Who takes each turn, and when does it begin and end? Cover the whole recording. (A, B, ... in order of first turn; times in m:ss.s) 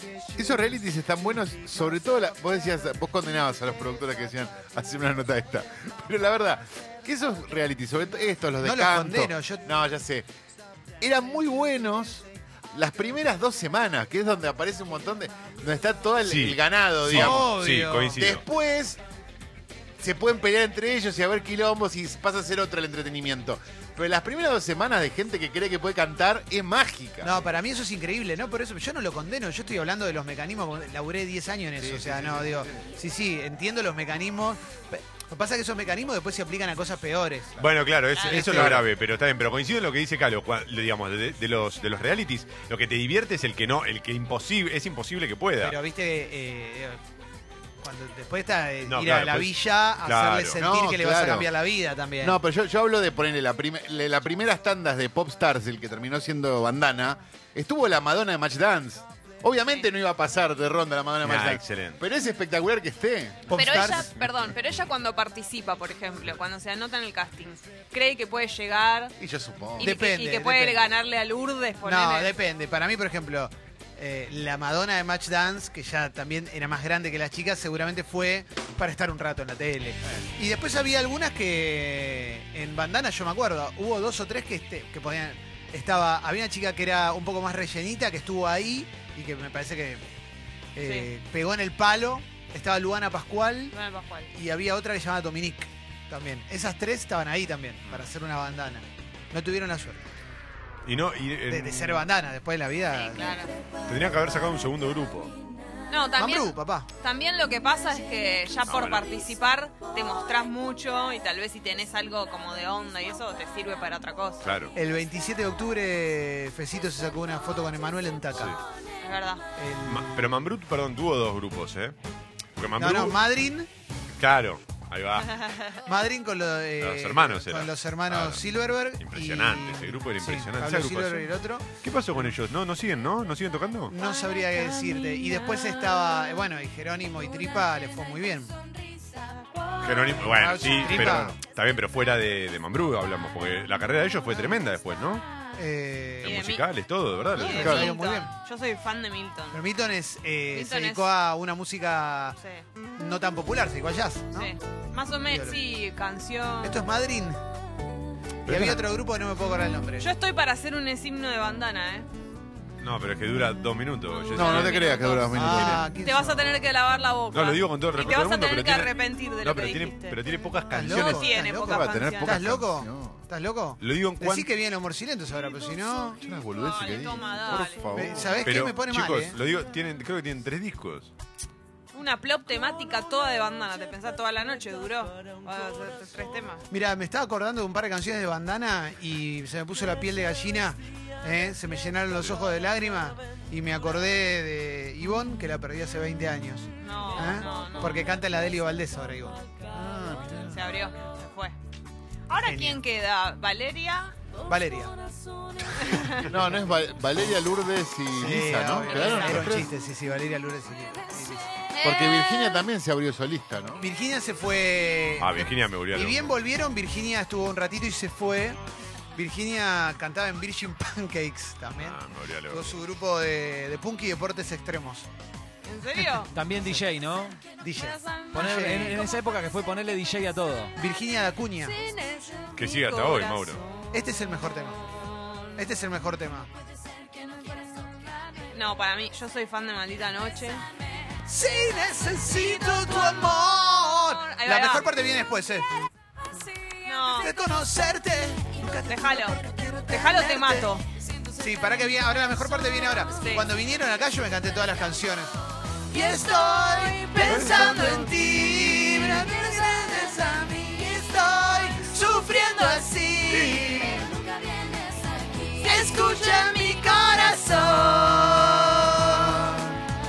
0:00.3-0:10.3 A
0:08.6-0:09.6 B
0:11.0-0:17.5 A
0:16.2-0:18.4 C
0:17.1-0:18.3 B
0:18.2-0:19.0 A
0:20.0-0:27.5 A
0:27.2-0:37.6 B
0:31.8-0:32.8 A
0:37.6-0:45.8 C
0:38.2-0:38.4 D
0:38.2-0:38.8 B
0:38.4-0:38.8 A
0:45.6-0:47.0 B
0:47.8-0:52.4 B
0:48.8-0:50.6 C
0:50.6-0:51.5 A
0:52.2-1:03.5 A
1:01.2-1:02.0 C
1:03.5-1:04.1 B
1:03.5-1:09.1 D
1:09.2-1:09.9 A
1:09.8-1:12.3 D
1:09.8-1:10.8 B
1:11.8-1:30.0 B
1:30.8-1:33.7 B
1:30.8-1:31.1 D
1:33.7-1:34.3 D
1:34.3-1:40.0 B
1:40.8-1:42.0 C
1:41.5-1:43.4 B
1:42.9-1:43.5 D
1:43.9-1:45.3 C
1:45.9-1:54.5 D
1:46.2-1:46.9 B
1:48.6-1:49.0 C
1:54.4-1:54.7 C
1:54.7-1:58.6 B
1:59.0-1:59.4 D
1:59.6-2:00.3 B
1:59.8-2:01.9 C
2:02.6-2:03.2 C
2:02.8-2:03.7 B
2:04.2-2:05.3 C
2:05.2-2:05.8 D
2:05.8-2:11.7 B
2:06.8-2:08.4 C
2:09.0-2:11.3 C
2:11.8-2:13.9 C
2:13.9-2:18.5 B
2:19.8-2:25.2 C
2:20.1-2:21.4 B
2:20.8-2:21.4 A
2:25.6-2:26.4 B
2:26.2-2:27.8 C
2:26.2-2:26.6 D
2:27.4-2:29.6 D
2:27.4-2:28.3 B
2:27.4-2:27.9 A
2:29.5-2:32.4 B
2:30.5-2:31.1 D
2:33.0-2:34.5 B
2:34.4-2:36.8 D
2:35.3-2:35.6 B
2:36.6-2:37.4 B
2:38.4-2:38.8 C
2:38.4-2:40.1 B
2:40.0-2:42.1 D
2:42.8-2:45.0 C
2:44.3-2:45.8 A
2:44.3-2:50.2 D
2:45.3-2:46.6 B
2:47.3-2:51.2 C
2:50.7-2:56.2 B
2:50.9-2:52.4 D
2:50.9-2:53.2 A
2:53.8-2:54.5 C
2:56.2-2:58.4 A
2:56.6-2:57.9 D
2:57.9-2:59.4 B
2:58.4-3:01.1 C
3:01.9-3:06.6 D
3:06.7-3:19.4 B
3:16.8-3:18.2 D
3:19.7-3:20.7 A
3:20.4-3:21.5 D
3:22.3-3:24.1 D
3:22.4-3:22.8 B
3:24.5-3:24.9 B
3:25.8-3:26.3 D
3:26.2-3:29.7 A
3:28.1-3:31.5 B
3:28.9-3:29.4 D
3:31.7-3:32.5 D
3:31.8-3:33.8 A
3:33.8-3:38.6 B
3:35.2-3:36.3 C
3:39.1-3:45.1 B
3:41.8-3:42.7 C
3:45.6-3:46.3 D
3:46.3-3:47.4 E
3:47.6-3:49.0 B
3:47.8-3:48.5 D
3:48.3-3:50.7 E
3:50.8-3:51.7 B
3:51.6-3:53.9 D
3:52.6-3:53.6 C
3:53.9-3:54.8 B
3:54.8-3:55.6 D
3:55.6-3:56.5 B
3:58.4-4:00.7 D
4:01.3-4:05.7 B
4:02.3-4:03.3 D
4:04.1-4:04.9 D
4:06.8-4:07.3 D
4:07.2-4:10.7 B
4:08.9-4:09.4 D
4:09.9-4:10.8 D
4:11.4-4:15.3 B
4:13.2-4:13.5 D
4:15.9-4:24.1 B
4:17.2-4:19.2 D
4:17.3-4:17.8 C
4:25.6-4:29.6 B
4:25.7-4:26.6 D